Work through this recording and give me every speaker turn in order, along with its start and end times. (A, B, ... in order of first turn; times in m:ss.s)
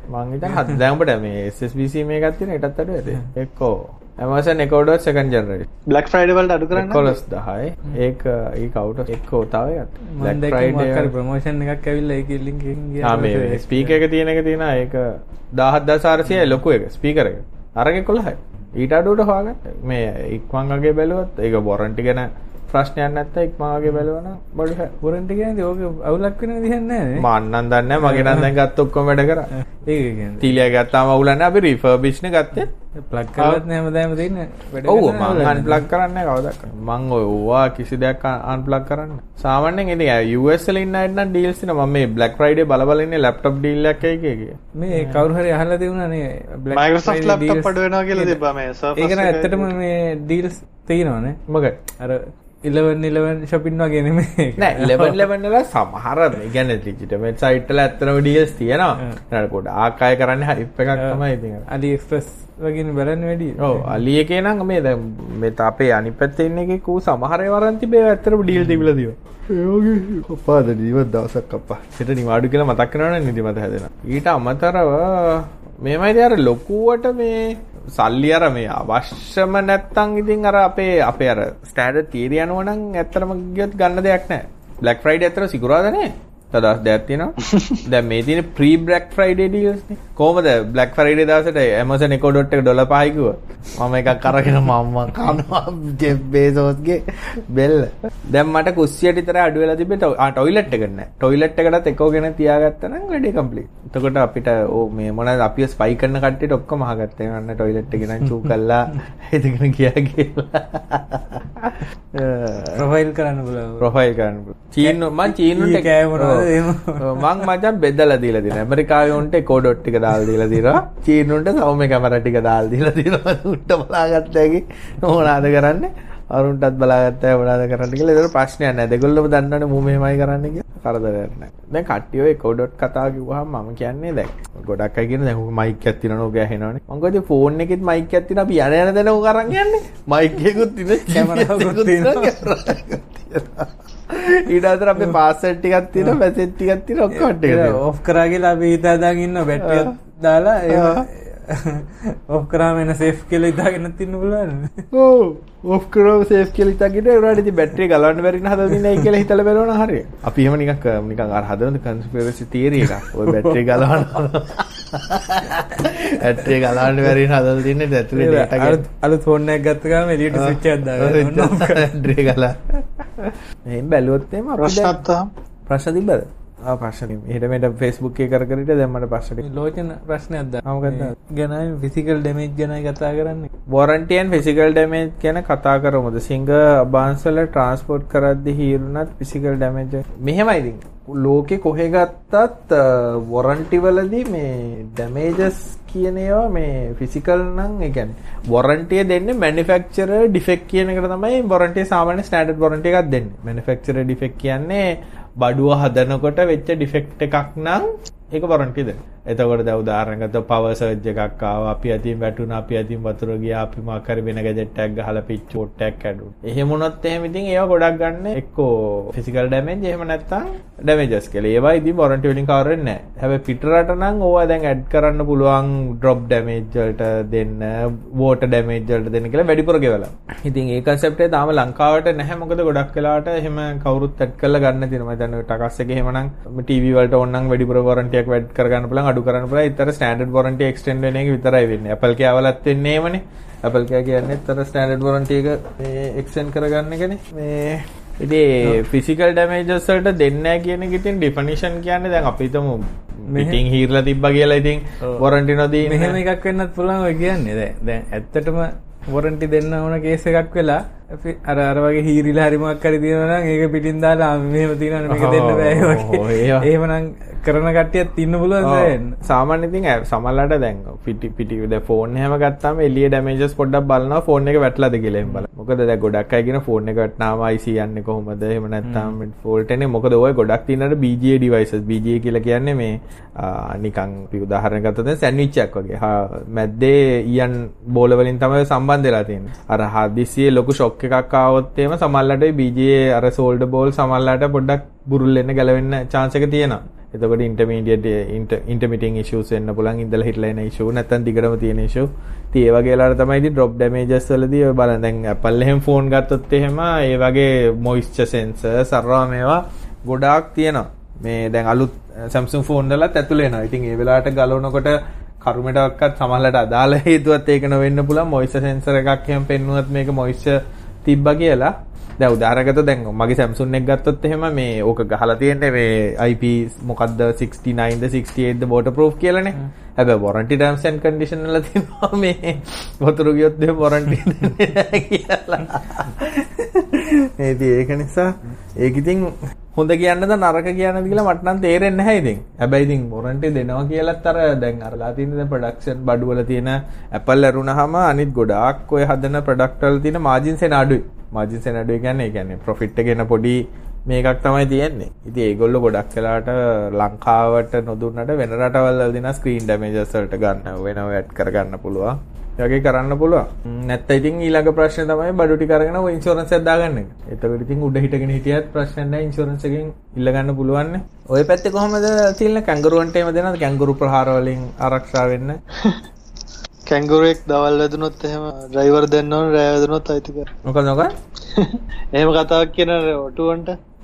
0:00.1-0:05.7 A
0:00.5-0:00.8 B
0:05.9-0:07.2 C
0:06.7-0:11.1 A
0:10.1-0:14.0 B
0:13.0-0:24.9 A
0:25.0-0:27.3 B
0:27.2-0:29.5 A
0:28.0-0:28.5 B
0:29.6-0:30.5 B
0:30.4-0:32.7 A
0:33.0-0:35.9 B
0:33.4-0:33.6 A
0:34.8-0:45.2 A
0:44.8-0:48.4 B
0:46.7-0:49.7 C
0:49.0-0:51.4 B
0:51.5-0:51.8 A
0:52.0-0:55.3 B
0:54.6-1:01.6 A
1:01.0-1:04.0 B
1:03.6-1:52.9 A
1:08.5-1:08.9 B
1:52.7-1:53.9 B
1:53.8-2:27.8 A
1:54.8-1:57.4 B
2:21.0-2:22.5 B
2:27.1-2:34.9 B
2:29.6-2:29.9 A
2:30.7-2:31.1 A
2:34.9-2:48.8 A
2:43.2-2:43.8 B
2:48.1-2:52.0 B
2:50.3-2:55.0 A
2:54.6-2:55.3 C
2:55.7-2:59.4 A
2:59.4-3:03.5 B
3:00.6-3:01.1 A
3:03.7-3:24.9 A
3:25.4-4:16.2 A
4:13.3-4:13.6 B
4:15.8-4:29.2 B
4:25.1-4:26.7 A
4:28.6-6:15.6 A
4:38.8-4:39.2 B
6:16.9-6:20.5 C
6:20.6-6:21.1 A
6:21.5-6:23.8 C